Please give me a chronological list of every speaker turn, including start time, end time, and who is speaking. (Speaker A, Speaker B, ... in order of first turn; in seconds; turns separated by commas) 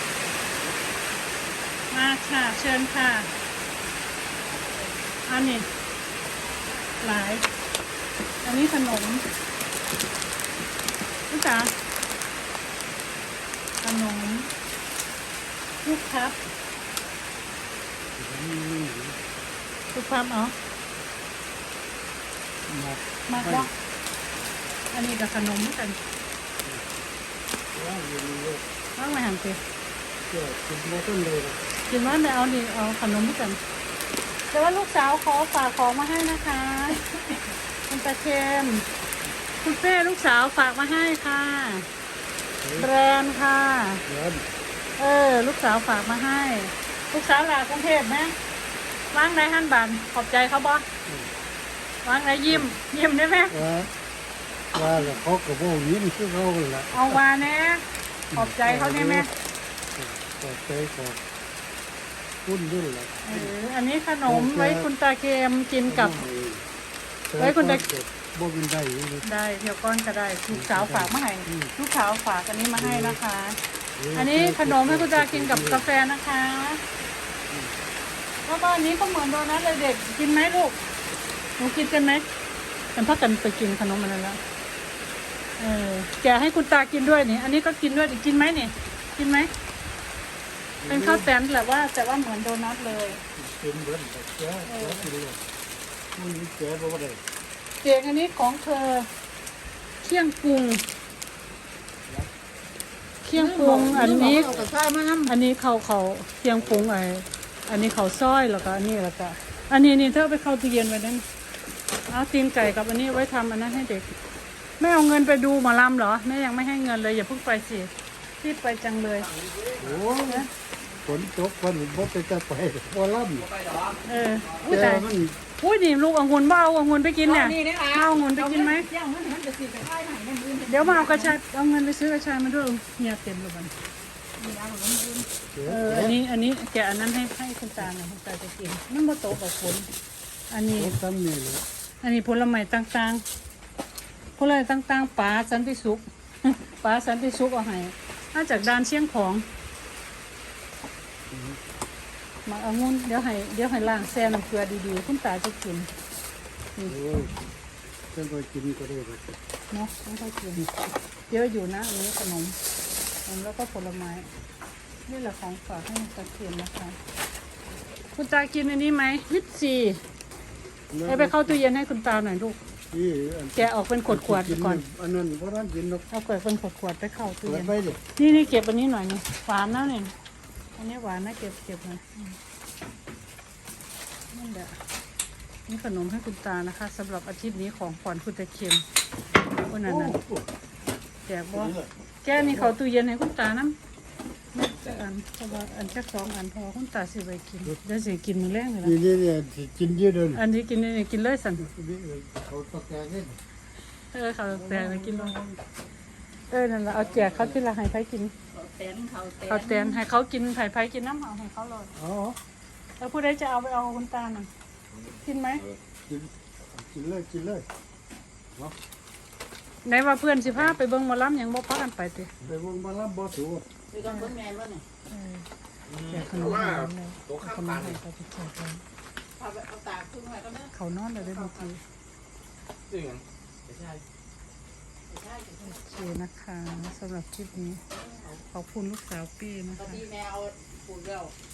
Speaker A: 1.9-3.3, Speaker A: 5.3-5.7, Speaker A: 7.0-7.5, Speaker A: 8.4-9.2, Speaker A: 11.3-11.7, Speaker A: 13.8-14.5, Speaker A: 15.8-16.4, Speaker B: 18.1-19.2, Speaker A: 19.9-20.6, Speaker B: 22.7-23.7, Speaker A: 23.3-23.7, Speaker A: 24.9-26.0, Speaker B: 27.7-28.6, Speaker A: 28.9-29.6, Speaker B: 30.3-31.6, Speaker A: 31.9-33.6, Speaker A: 34.5-37.0, Speaker C: 36.9-37.4, Speaker A: 37.9-38.9, Speaker A: 39.6-41.9, Speaker B: 42.6-42.9, Speaker A: 42.8-44.0, Speaker B: 44.0-44.4, Speaker A: 45.0-48.3, Speaker A: 49.1-50.9, Speaker A: 52.0-53.6, Speaker B: 53.5-53.9, Speaker B: 54.7-57.2, Speaker A: 56.9-59.3, Speaker B: 58.3-59.3, Speaker B: 60.0-61.2, Speaker B: 62.4-63.5, Speaker A: 63.2-66.2, Speaker B: 64.2-64.9, Speaker B: 65.9-66.6, Speaker B: 67.3-69.2, Speaker A: 67.4-67.8, Speaker A: 69.2-73.6, Speaker B: 70.5-71.7, Speaker B: 72.8-73.2, Speaker B: 74.0-75.8, Speaker A: 74.1-76.8, Speaker A: 78.5-80.8, Speaker A: 81.6-82.3, Speaker A: 82.9-84.4, Speaker A: 85.6-89.5, Speaker B: 90.8-91.3, Speaker A: 90.8-93.2, Speaker B: 93.3-95.4, Speaker A: 94.7-95.1, Speaker B: 96.1-97.2, Speaker A: 97.8-99.1, Speaker A: 100.0-100.8, Speaker A: 103.2-104.6, Speaker C: 103.3-105.3, Speaker A: 105.2-111.2, Speaker A: 112.1-114.1, Speaker A: 114.8-119.3, Speaker D: 119.3-119.9, Speaker B: 119.8-120.5, Speaker B: 121.0-123.5, Speaker D: 123.6-123.9, Speaker A: 124.0-128.9, Speaker C: 124.6-124.9, Speaker B: 124.6-125.4, Speaker C: 127.2-131.3, Speaker A: 130.7-133.7, Speaker C: 134.4-135.3, Speaker B: 135.5-136.2, Speaker A: 135.6-139.9, Speaker A: 140.5-140.9, Speaker B: 140.7-141.6, Speaker A: 142.0-143.2, Speaker A: 144.4-149.4, Speaker B: 151.3-151.6, Speaker A: 152.4-155.9, Speaker B: 156.8-157.3, Speaker B: 158.1-159.4, Speaker A: 159.7-160.7, Speaker A: 161.3-162.6, Speaker A: 163.2-164.3, Speaker A: 165.1-167.0, Speaker A: 168.1-170.0, Speaker B: 170.9-171.6, Speaker A: 171.0-172.6, Speaker B: 172.9-176.1, Speaker A: 173.6-174.8, Speaker A: 176.1-180.1, Speaker B: 177.4-178.0, Speaker A: 180.8-182.3, Speaker A: 184.3-184.8, Speaker A: 185.7-188.8, Speaker A: 189.7-190.2, Speaker B: 189.8-190.5, Speaker A: 191.2-193.8, Speaker B: 191.5-192.7, Speaker A: 194.5-198.9, Speaker B: 198.8-200.4, Speaker A: 200.3-201.7, Speaker B: 201.6-203.4, Speaker A: 204.1-205.3, Speaker B: 204.5-205.6, Speaker A: 206.5-208.3, Speaker B: 206.9-207.6, Speaker C: 208.5-210.0, Speaker A: 209.5-211.9, Speaker B: 211.9-212.4, Speaker A: 213.0-214.5, Speaker A: 215.1-215.6, Speaker B: 216.1-217.7, Speaker A: 219.8-222.3, Speaker B: 222.4-223.7, Speaker C: 223.9-224.8, Speaker A: 224.1-224.3, Speaker A: 225.1-228.8, Speaker D: 225.9-227.9, Speaker C: 229.4-231.7, Speaker A: 230.7-231.8, Speaker D: 232.9-234.0, Speaker C: 235.1-235.8, Speaker A: 235.6-237.8, Speaker C: 237.9-238.4, Speaker A: 238.5-240.0, Speaker C: 239.8-241.3